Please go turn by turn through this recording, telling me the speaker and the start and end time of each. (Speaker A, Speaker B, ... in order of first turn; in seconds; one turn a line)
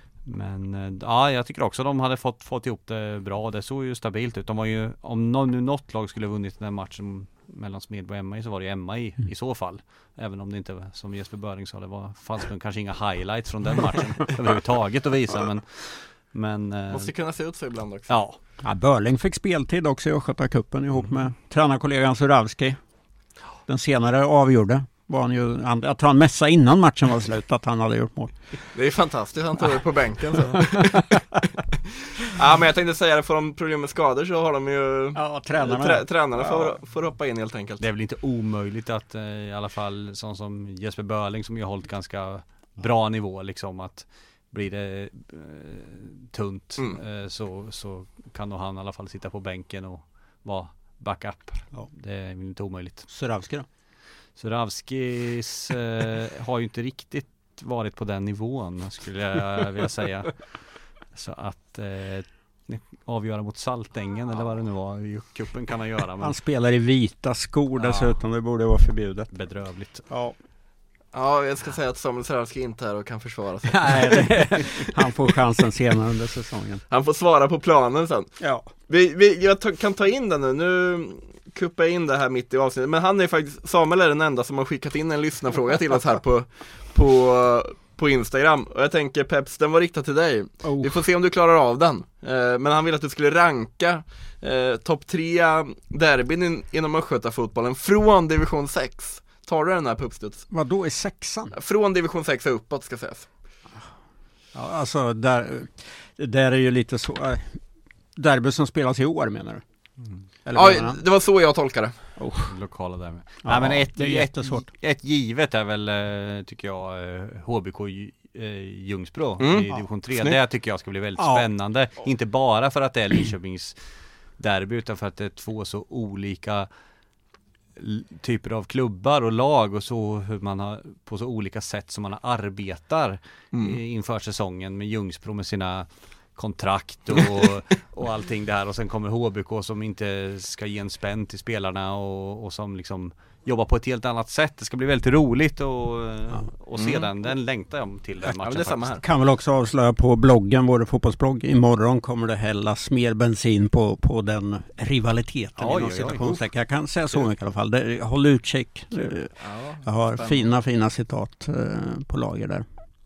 Speaker A: 0.2-17.1
Speaker B: 16.9-18.2
Speaker A: 18.1-18.4
Speaker C: 18.6-22.8
Speaker C: 23.7-28.4
Speaker B: 28.7-31.0
Speaker C: 30.5-31.4
Speaker B: 32.2-37.8
Speaker C: 35.1-36.8
Speaker A: 37.8-53.1
Speaker C: 53.1-53.7
Speaker A: 54.4-66.3
Speaker C: 66.2-69.3
Speaker A: 67.8-68.2
Speaker A: 69.3-70.1
Speaker C: 70.1-70.4
Speaker B: 71.1-74.6
Speaker C: 73.7-76.8
Speaker B: 76.9-100.5
Speaker C: 78.4-78.7
Speaker C: 90.6-91.0
Speaker C: 100.5-101.5
Speaker B: 101.5-103.3
Speaker C: 104.5-107.6
Speaker C: 108.2-109.6
Speaker A: 110.0-110.3
Speaker C: 110.4-111.0
Speaker B: 110.5-112.0
Speaker C: 112.2-112.5
Speaker A: 112.5-123.8
Speaker C: 113.4-114.7
Speaker B: 119.4-119.7
Speaker C: 119.7-120.4
Speaker C: 121.2-121.5
Speaker A: 124.4-126.7
Speaker A: 127.8-149.0
Speaker B: 133.5-133.8
Speaker B: 146.8-147.1
Speaker B: 148.4-149.0
Speaker C: 149.0-162.7
Speaker A: 155.6-156.4
Speaker B: 159.4-160.5